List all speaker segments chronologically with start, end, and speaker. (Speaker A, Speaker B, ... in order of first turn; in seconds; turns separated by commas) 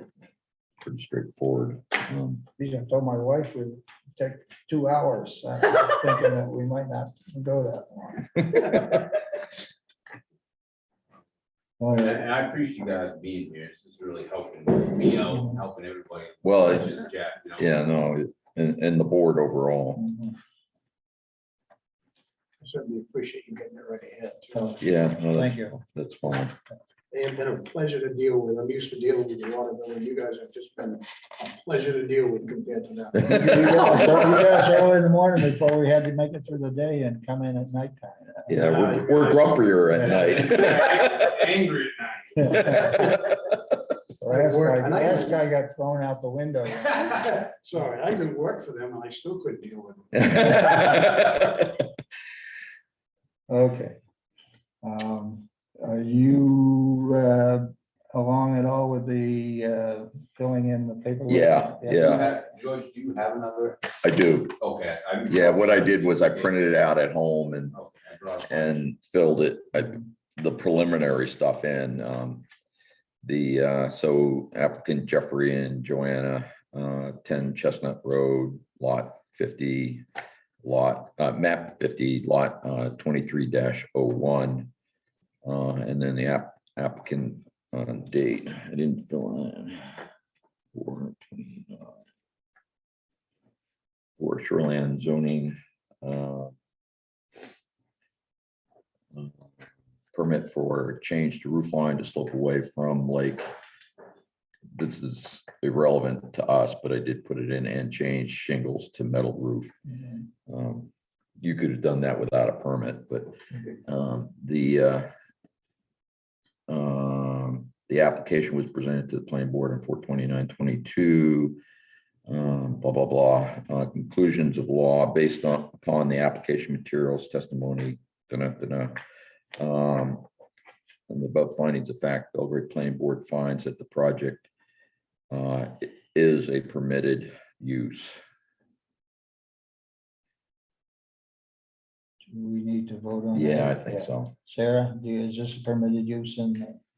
Speaker A: 0.8-2.5, Speaker B: 2.6-9.0, Speaker B: 11.8-12.2, Speaker C: 11.9-17.8, Speaker B: 15.3-15.6, Speaker A: 16.4-17.0, Speaker A: 17.6-20.0, Speaker B: 20.0-20.4, Speaker D: 22.6-24.7, Speaker B: 24.5-25.8, Speaker A: 24.8-26.6, Speaker D: 27.1-34.6, Speaker B: 33.2-38.9, Speaker A: 38.5-41.4, Speaker D: 38.5-39.7, Speaker B: 39.9-40.6, Speaker C: 40.1-42.8, Speaker B: 42.4-43.2, Speaker A: 42.5-42.9, Speaker B: 44.2-47.4, Speaker D: 44.3-45.4, Speaker D: 47.1-50.6, Speaker A: 50.2-51.8, Speaker B: 53.5-54.0, Speaker B: 54.8-62.4, Speaker A: 61.3-62.3, Speaker C: 61.9-64.0, Speaker A: 64.0-64.6, Speaker C: 64.6-66.7, Speaker A: 65.3-67.8, Speaker C: 67.7-68.8, Speaker A: 68.5-72.5, Speaker A: 73.2-80.1, Speaker A: 80.6-84.7, Speaker A: 85.5-90.0, Speaker A: 90.8-92.0, Speaker A: 94.2-96.5, Speaker A: 99.1-99.5, Speaker A: 100.1-103.5, Speaker A: 104.7-109.7, Speaker A: 110.5-113.3, Speaker A: 113.9-115.1, Speaker A: 116.7-121.6, Speaker A: 122.3-128.9, Speaker A: 129.6-130.3, Speaker A: 131.1-134.5, Speaker A: 135.3-138.2, Speaker B: 142.3-146.8, Speaker A: 143.3-144.3